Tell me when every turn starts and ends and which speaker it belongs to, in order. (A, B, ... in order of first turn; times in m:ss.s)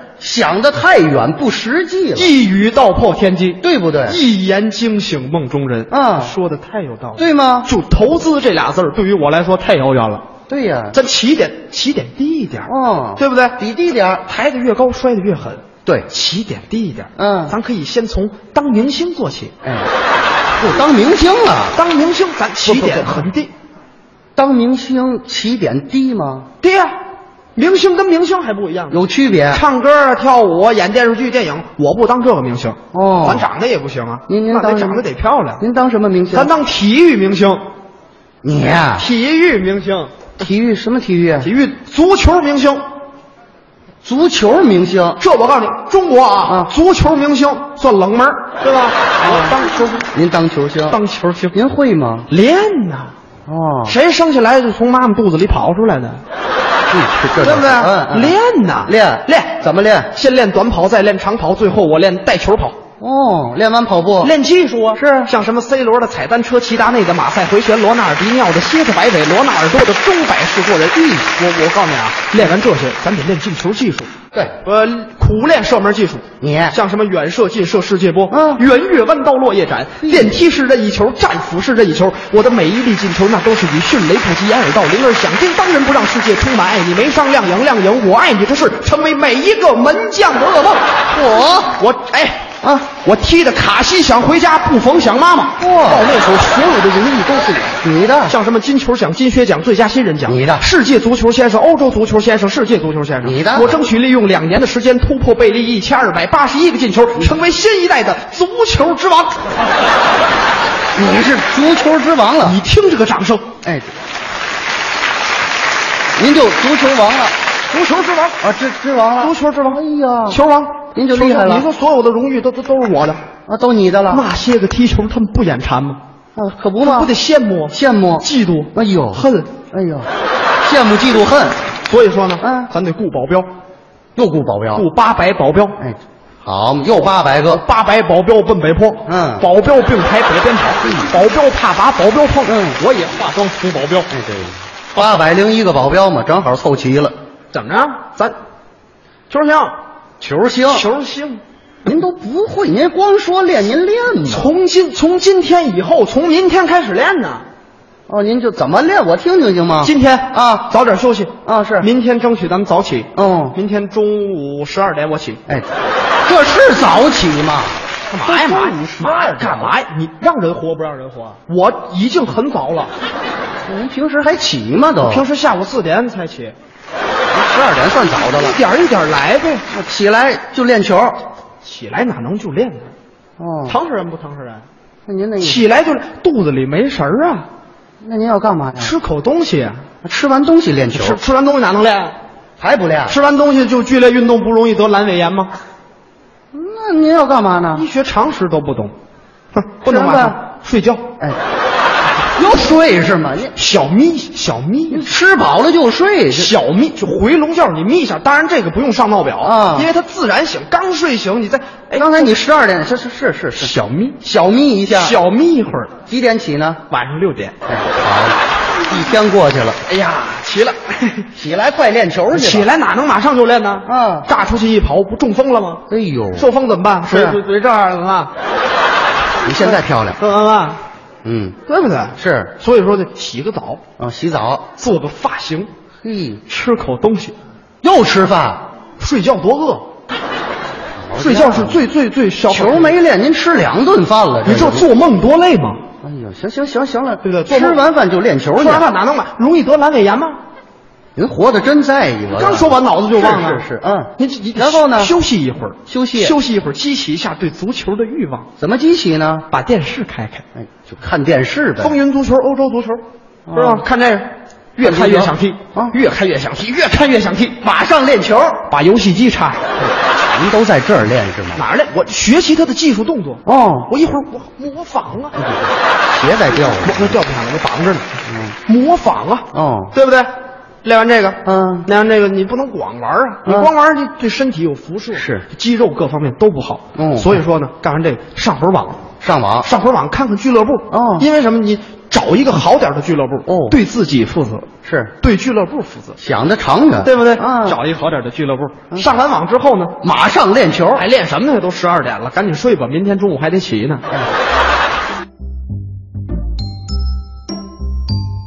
0:00.2-0:02.3 A
0:02.1-0:10.2 B
0:03.6-0:04.2 A
0:05.9-0:06.3 A
0:07.2-0:07.7 A
0:10.5-0:11.0 A
0:10.9-0:13.6 B
0:12.6-0:14.2 A
0:14.2-0:19.5 B
0:17.2-0:17.6 A
0:19.6-0:19.9 A
0:20.6-0:21.8 A
0:21.7-0:23.5 B
0:22.6-0:23.2 A
0:24.4-0:26.5 A
0:26.6-0:27.0 B
0:27.6-0:35.6 B
0:28.9-0:29.6 A
0:32.9-0:33.5 A
0:34.3-0:35.0 A
0:35.6-0:36.5 A
0:36.3-0:37.6 B
0:38.4-0:39.1 A
0:39.0-0:40.3 B
0:40.4-0:41.5 A
0:41.4-0:42.8 B
0:44.0-0:45.2 A
0:45.2-0:50.1 B
0:46.4-0:46.7 A
0:50.1-0:51.0 A
0:50.9-0:51.6 B
0:51.5-0:52.3 A
0:52.3-0:53.1 B
0:53.5-0:54.0 A
0:53.9-0:56.2 B
0:56.9-1:00.1 A
0:57.4-0:59.6 B
1:00.1-1:02.8 B
1:03.0-1:04.3 A
1:04.2-1:14.1 B
1:04.9-1:05.3 A
1:14.3-1:14.6 A
1:14.6-1:30.8 B
1:16.4-1:16.8 A
1:18.3-1:18.6 A
1:20.0-1:20.4 A
1:31.1-1:31.8 A
1:31.8-1:49.4 B
1:32.6-1:32.9 A
1:35.6-1:36.1 A
1:37.8-1:38.4 A
1:40.2-1:40.6 A
1:43.2-1:43.8 A
1:50.9-1:52.6 A
1:52.4-1:53.4 B
1:53.6-1:53.9 A
1:56.2-1:57.4 A
1:57.7-1:58.4 B
1:58.4-2:00.4 A
1:59.2-2:03.2 B
2:00.9-2:01.7 A
2:03.4-2:04.3 A
2:04.1-2:06.0 B
2:06.4-2:07.1 A
2:06.8-2:09.5 B
2:07.7-2:10.1 A
2:10.6-2:11.6 A
2:11.9-2:13.5 B
2:12.4-2:12.7 A
2:14.2-2:14.9 A
2:14.7-2:15.8 B
2:15.8-2:17.6 A
2:17.5-2:24.1 B
2:19.0-2:19.5 A
2:20.8-2:21.1 A
2:22.4-2:22.8 A
2:24.1-2:27.1 A
2:27.5-2:28.3 B
2:29.3-2:29.8 B
2:30.2-2:30.9 A
2:30.7-2:31.4 B
2:31.8-2:34.5 A
2:34.3-2:37.4 B
2:38.1-2:40.7 A
2:39.8-2:45.4 B
2:41.4-2:41.9 A
2:43.1-2:43.6 A
2:46.2-2:49.8 A
2:48.1-2:52.9 B
2:53.7-2:55.3 A
2:55.0-2:56.5 B
2:57.3-2:58.6 A
2:58.3-2:59.6 B
2:59.7-3:01.2 A
3:01.6-3:02.9 B
3:03.4-3:03.8 A
3:03.6-3:04.6 B
3:05.1-3:05.6 A
3:05.4-3:07.5 B
3:08.0-3:09.0 A
3:08.8-3:09.8 B
3:10.0-3:11.2 A
3:10.9-3:12.2 B
3:12.6-3:13.2 A
3:13.1-3:15.5 B
3:16.5-3:17.8 A
3:17.7-3:18.9 B
3:19.5-3:21.0 B
3:19.8-3:20.4 A
3:22.3-3:23.5 A
3:23.6-3:25.1 B
3:24.9-3:26.5 A
3:26.3-3:32.3 B
3:29.4-3:29.9 A
3:31.9-3:35.2 A
3:33.6-3:34.2 B
3:34.9-3:35.9 B
3:36.1-3:36.8 A
3:36.9-3:37.5 B
3:37.7-3:39.8 A
3:39.8-3:41.3 B
3:41.3-3:42.7 A
3:42.3-3:45.8 B
3:43.8-3:44.3 A
3:45.9-3:46.5 A
3:46.4-3:48.3 B
3:47.1-3:47.4 A
3:49.4-3:50.2 A
3:49.7-3:50.8 B
3:51.2-3:51.6 A
3:51.7-3:53.8 B
3:52.2-3:52.5 A
3:54.0-3:54.6 A
3:54.8-3:55.7 B
3:56.0-3:56.4 A
3:56.5-3:57.3 B
3:57.8-3:58.6 A
3:59.0-3:59.8 B
4:01.0-4:01.8 A
4:01.2-4:02.9 B
4:02.5-4:04.9 A
4:04.4-4:05.8 B
4:06.0-4:08.9 A
4:07.2-4:07.8 B
4:08.6-4:10.4 B
4:11.2-4:15.2 A
4:12.3-4:13.6 B
4:14.2-4:18.5 B
4:15.9-4:16.4 A
4:18.6-4:19.4 A
4:19.5-4:20.4 B
4:20.5-4:22.0 A
4:21.8-4:23.0 B
4:23.5-4:23.8 A
4:23.5-4:27.6 B
4:24.8-4:25.9 A
4:27.6-4:28.7 A
4:28.7-4:29.6 B
4:29.8-4:31.6 A
4:31.6-4:35.3 B
4:33.4-4:33.9 A
4:35.3-4:37.2 A
4:36.7-4:38.1 B
4:38.3-4:38.6 A
4:38.6-4:40.3 B
4:39.5-4:39.9 A
4:40.8-4:49.0 B
4:41.4-4:41.9 A
4:43.4-4:43.7 A
4:45.1-4:45.4 A
4:46.9-4:47.4 A
4:49.2-4:49.7 A
4:49.6-4:54.7 B
4:50.9-4:51.3 A
4:53.4-4:53.8 A
4:54.8-4:55.1 A
4:55.2-4:56.2 B
4:56.2-4:57.8 A
4:57.0-5:00.0 B
5:00.0-5:01.0 A
5:00.9-5:04.0 B